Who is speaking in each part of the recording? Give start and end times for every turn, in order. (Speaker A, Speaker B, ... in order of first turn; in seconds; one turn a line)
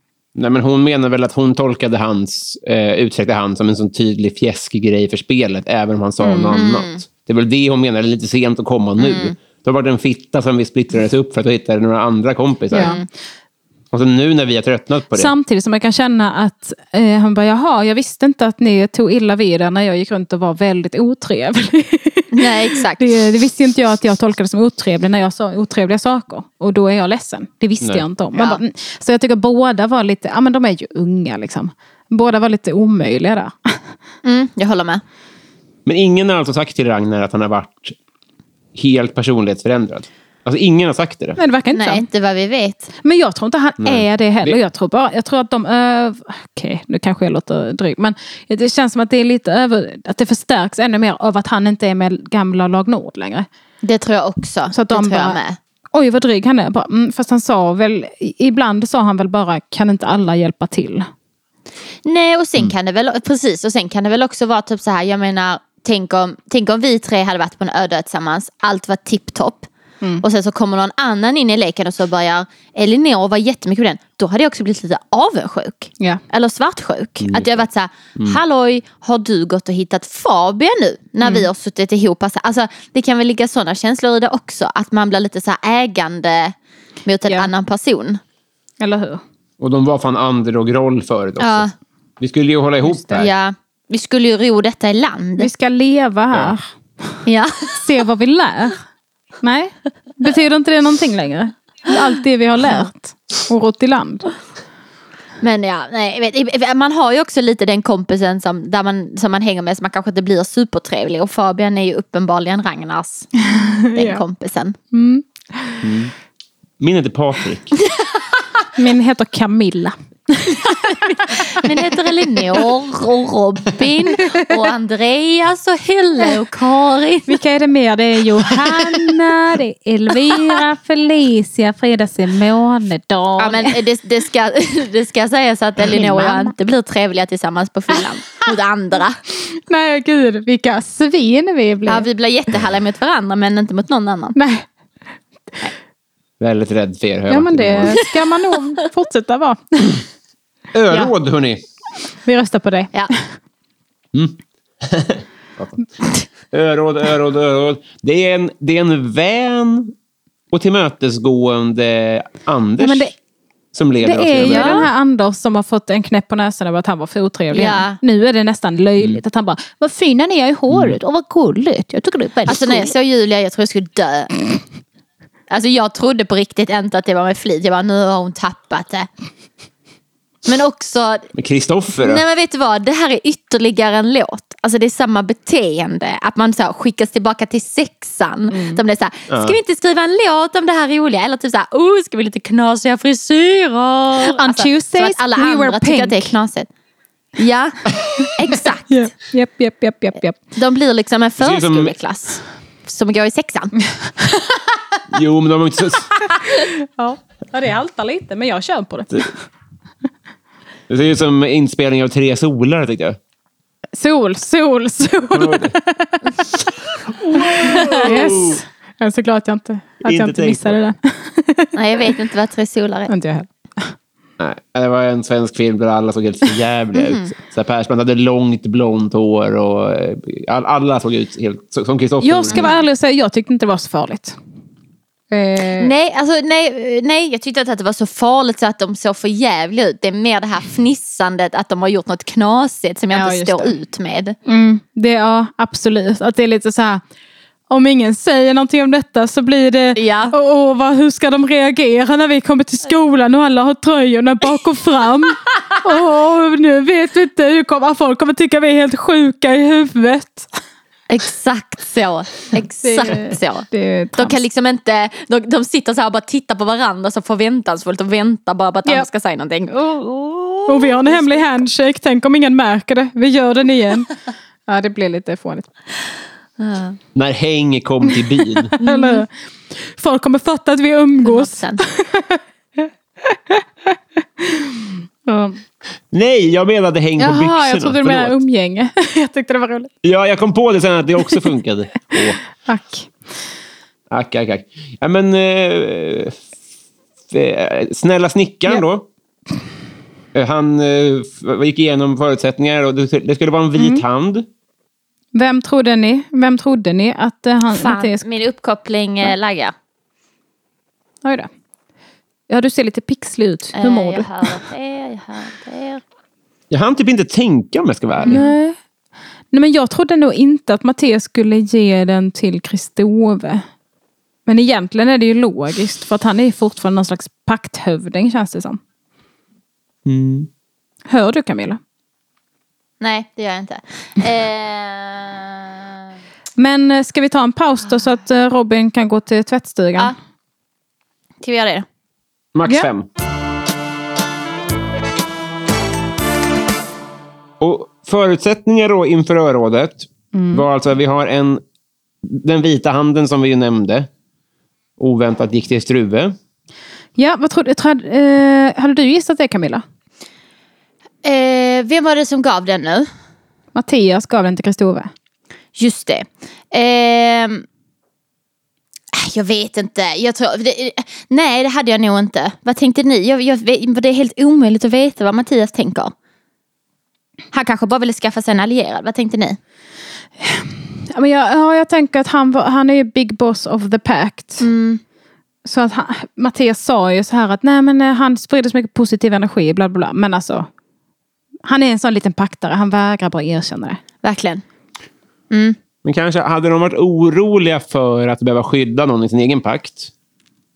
Speaker A: 0.4-12.9
Speaker B: 6.2-6.5
Speaker C: 6.5-7.0
Speaker C: 9.0-9.3
Speaker C: 12.7-13.1
Speaker B: 12.7-13.0
Speaker A: 13.9-15.3
Speaker B: 15.1-33.8
Speaker C: 22.3-23.2
Speaker C: 28.3-28.6
Speaker C: 34.2-35.0
Speaker A: 35.9-38.0
Speaker A: 38.8-41.4
Speaker B: 41.4-42.0
Speaker C: 41.7-42.9
Speaker B: 43.0-53.5
Speaker A: 43.8-44.6
Speaker C: 53.8-55.6
Speaker B: 54.7-55.4
Speaker B: 55.9-61.1
Speaker C: 62.0-69.7
Speaker C: 70.2-88.2
Speaker A: 77.2-77.6
Speaker B: 88.8-89.2
Speaker A: 89.6-91.7
Speaker C: 91.4-91.7
Speaker A: 92.2-93.3
Speaker C: 93.1-95.5
Speaker B: 95.4-96.6
Speaker C: 97.3-97.9
Speaker B: 97.7-98.8
Speaker B: 99.4-104.3
Speaker C: 105.4-113.4
Speaker B: 113.4-114.2
Speaker C: 113.9-114.8
Speaker B: 114.9-115.8
Speaker A: 115.8-116.1
Speaker A: 116.8-117.7
Speaker B: 118.8-121.6
Speaker C: 120.7-127.4
Speaker B: 124.2-124.5
Speaker B: 127.3-133.8
Speaker C: 128.6-129.1
Speaker C: 133.4-139.2
Speaker B: 135.9-136.5
Speaker B: 139.5-142.1
Speaker C: 141.9-144.4
Speaker B: 144.4-144.7
Speaker A: 146.4-148.0
Speaker B: 147.3-150.0
Speaker A: 150.7-151.6
Speaker B: 152.2-152.9
Speaker A: 154.1-155.8
Speaker A: 156.5-159.9
Speaker A: 160.5-163.1
Speaker B: 162.8-163.1
Speaker A: 163.7-164.9
Speaker B: 164.0-172.9
Speaker C: 164.4-164.8
Speaker C: 167.5-168.0
Speaker A: 170.7-171.0
Speaker C: 172.5-174.3
Speaker C: 175.5-179.1
Speaker C: 180.5-181.3
Speaker A: 181.4-182.2
Speaker C: 182.0-196.7
Speaker B: 188.5-188.8
Speaker A: 189.3-189.6
Speaker B: 194.2-196.3
Speaker C: 197.4-199.0
Speaker B: 198.9-200.4
Speaker C: 200.6-203.8
Speaker A: 201.4-201.9
Speaker A: 205.1-206.1
Speaker B: 206.4-209.4
Speaker A: 210.9-213.2
Speaker B: 213.9-216.3
Speaker A: 215.3-215.8
Speaker A: 217.2-218.6
Speaker B: 217.3-221.8
Speaker C: 217.8-218.1
Speaker A: 220.0-220.8
Speaker C: 221.7-223.1
Speaker B: 223.1-223.9
Speaker A: 224.4-232.6
Speaker C: 226.9-227.3
Speaker B: 232.2-234.4
Speaker B: 235.3-235.9
Speaker C: 235.8-244.4
Speaker B: 243.1-243.8
Speaker B: 244.5-247.0
Speaker B: 247.7-260.5
Speaker C: 250.0-250.3
Speaker C: 261.1-271.4
Speaker B: 262.8-264.4
Speaker B: 270.7-274.1
Speaker B: 274.7-275.7
Speaker C: 276.6-277.0
Speaker A: 277.1-278.7
Speaker B: 278.8-279.3
Speaker C: 278.8-279.2
Speaker B: 279.9-283.6
Speaker C: 281.2-281.8
Speaker B: 284.4-285.6
Speaker A: 286.1-288.4
Speaker B: 287.2-289.9
Speaker A: 290.0-292.4
Speaker B: 292.6-293.1
Speaker A: 294.1-296.4
Speaker A: 297.3-299.1
Speaker A: 300.3-304.5
Speaker B: 303.8-304.0
Speaker B: 305.4-308.2
Speaker C: 307.7-309.7
Speaker B: 311.2-311.5
Speaker B: 312.5-314.5
Speaker C: 313.8-316.0
Speaker A: 316.7-318.4
Speaker B: 318.3-318.8
Speaker B: 319.5-323.6
Speaker B: 324.5-328.8
Speaker A: 330.1-330.5
Speaker B: 331.1-331.8
Speaker C: 333.0-335.8
Speaker B: 336.6-340.1
Speaker C: 341.4-341.9
Speaker A: 342.6-343.1
Speaker A: 347.6-351.6
Speaker B: 350.3-350.6
Speaker A: 352.2-354.1
Speaker A: 355.0-356.4
Speaker B: 357.2-359.8
Speaker C: 361.2-363.1
Speaker B: 363.8-365.1
Speaker C: 365.8-367.7
Speaker C: 369.1-376.1
Speaker C: 377.5-379.6
Speaker B: 380.4-384.6
Speaker C: 384.6-385.0
Speaker B: 385.6-390.7
Speaker B: 391.6-394.0
Speaker C: 394.2-394.6
Speaker C: 395.5-395.8
Speaker A: 396.0-400.1